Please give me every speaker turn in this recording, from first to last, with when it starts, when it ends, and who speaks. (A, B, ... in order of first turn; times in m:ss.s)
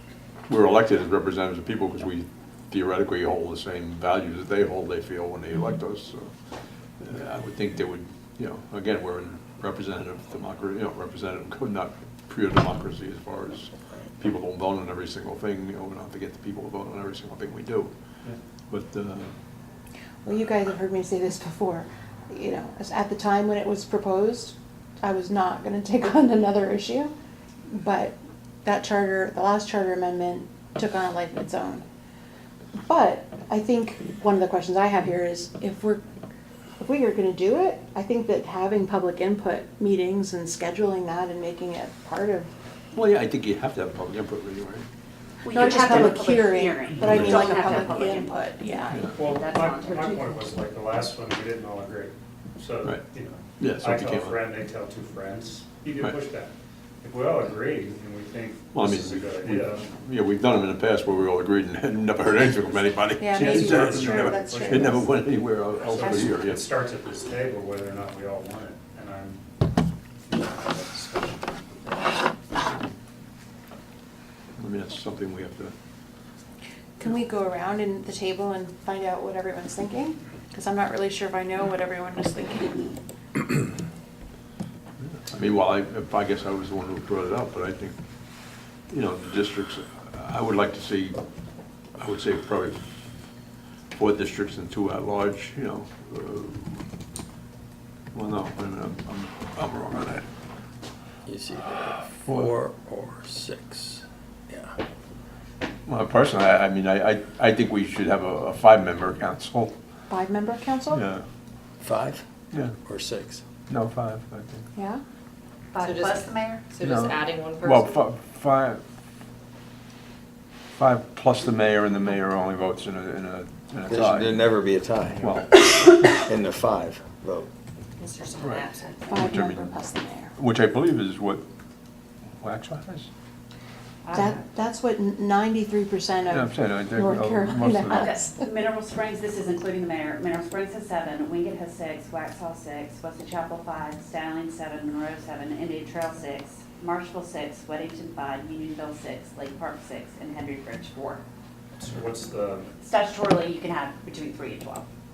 0:00.5-0:06.3 A
0:07.0-0:17.9 A
0:18.7-0:19.3 A
0:20.2-0:27.1 B
0:27.7-0:31.8 B
0:32.8-0:36.0 B
0:36.8-0:42.5 B
0:42.9-0:44.8 A
0:45.4-0:50.2 C
0:45.5-0:49.0 B
0:47.0-0:47.6 A
0:49.1-0:59.8 D
0:53.6-0:54.4 A
0:58.7-1:06.6 A
1:03.2-1:05.0 B
1:03.3-1:05.1 D
1:05.8-1:09.5 D
1:10.2-1:12.0 D
1:12.5-1:12.9 D
1:14.6-1:15.7 A
1:17.0-1:22.8 B
1:25.1-1:28.0 A
1:28.9-1:31.2 A
1:32.0-1:33.0 A
1:34.0-1:36.8 A
1:38.1-1:40.2 A
1:41.2-1:44.8 E
1:45.8-1:49.7 A
1:50.1-1:51.0 B
1:50.9-1:51.2 A
1:51.8-1:52.2 E
1:52.8-1:53.4 E
1:53.7-1:54.7 A
1:54.7-1:55.0 B
1:55.7-1:56.7 C
1:55.8-1:57.9 F
1:56.8-1:58.8 A
2:00.7-2:04.4 A
2:03.8-2:07.5 E
2:05.2-2:06.2 A
2:08.0-2:09.0 C
2:08.4-2:09.8 A
2:09.1-2:10.3 B
2:10.4-2:11.4 A
2:12.4-2:13.1 A
2:14.0-2:14.4 C
2:14.1-2:18.5 B
2:16.3-2:18.1 A
2:17.9-2:31.2 C
2:31.8-2:32.7 D
2:32.8-2:34.8 C